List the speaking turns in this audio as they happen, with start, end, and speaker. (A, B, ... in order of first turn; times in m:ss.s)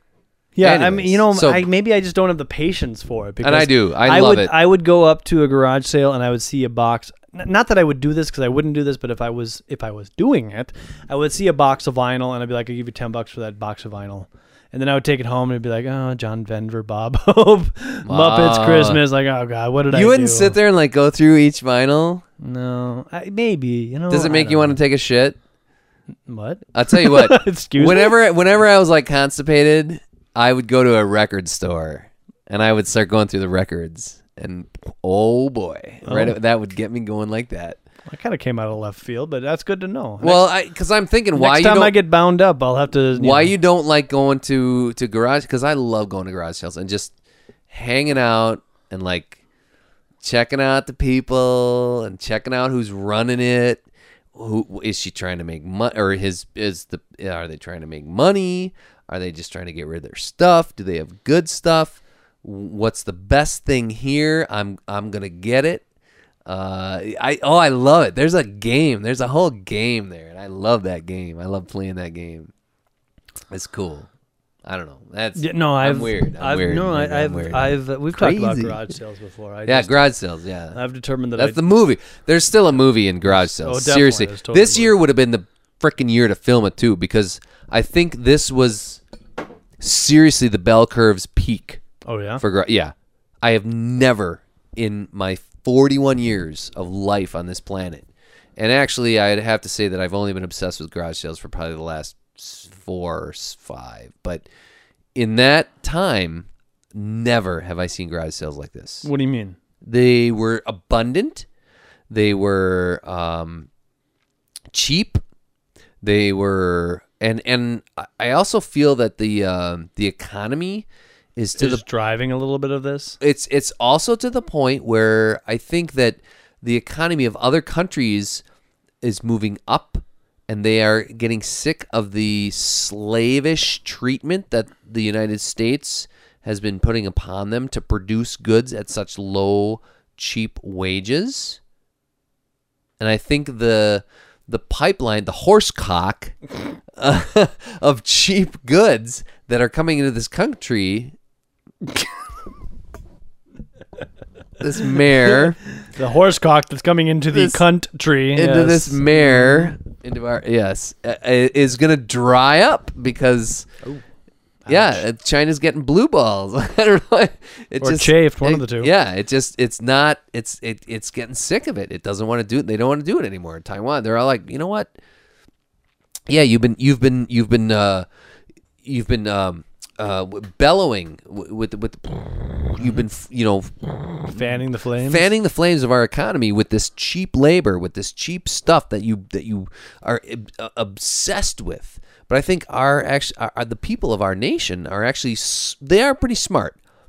0:00.6-0:20.6 A
0:00.6-0:01.6 B
0:03.4-0:04.5 B
0:18.1-0:19.0 B
0:19.9-0:22.2 B
0:22.4-0:24.8 A
0:24.1-0:25.4 B
0:26.3-0:28.2 A
0:26.8-0:37.8 B
0:36.0-0:36.4 A
0:38.1-0:40.4 A
0:40.2-0:42.0 B
0:41.4-0:43.5 A
0:43.2-0:47.1 B
0:47.7-0:49.4 B
0:50.2-0:53.8 B
0:54.4-1:05.8 B
1:06.5-1:12.5 B
1:13.5-1:14.1 B
1:14.6-1:18.8 B
1:15.4-1:20.0 A
1:19.7-1:20.8 B
1:20.7-1:21.6 A
1:21.4-1:29.0 B
1:23.3-1:24.9 A
1:29.8-1:31.8 B
1:32.0-1:32.4 A
1:32.4-1:44.5 B
1:45.2-1:49.1 B
1:49.0-1:49.6 A
1:49.8-1:51.5 B
1:52.1-1:53.7 B
1:54.7-1:55.2 B
1:56.0-2:01.8 B
2:01.6-2:03.2 A
2:03.2-2:08.4 B
2:09.0-2:21.6 B
2:23.0-2:31.2 B
2:34.6-2:35.6 B
2:35.3-2:39.7 A
2:37.3-2:37.6 B
2:38.3-2:43.7 B
2:44.6-2:45.0 A
2:44.7-2:54.9 B
2:47.8-2:48.9 A
2:56.3-2:58.1 B
2:58.8-3:04.5 B
3:04.3-3:05.3 A
3:05.0-3:16.8 B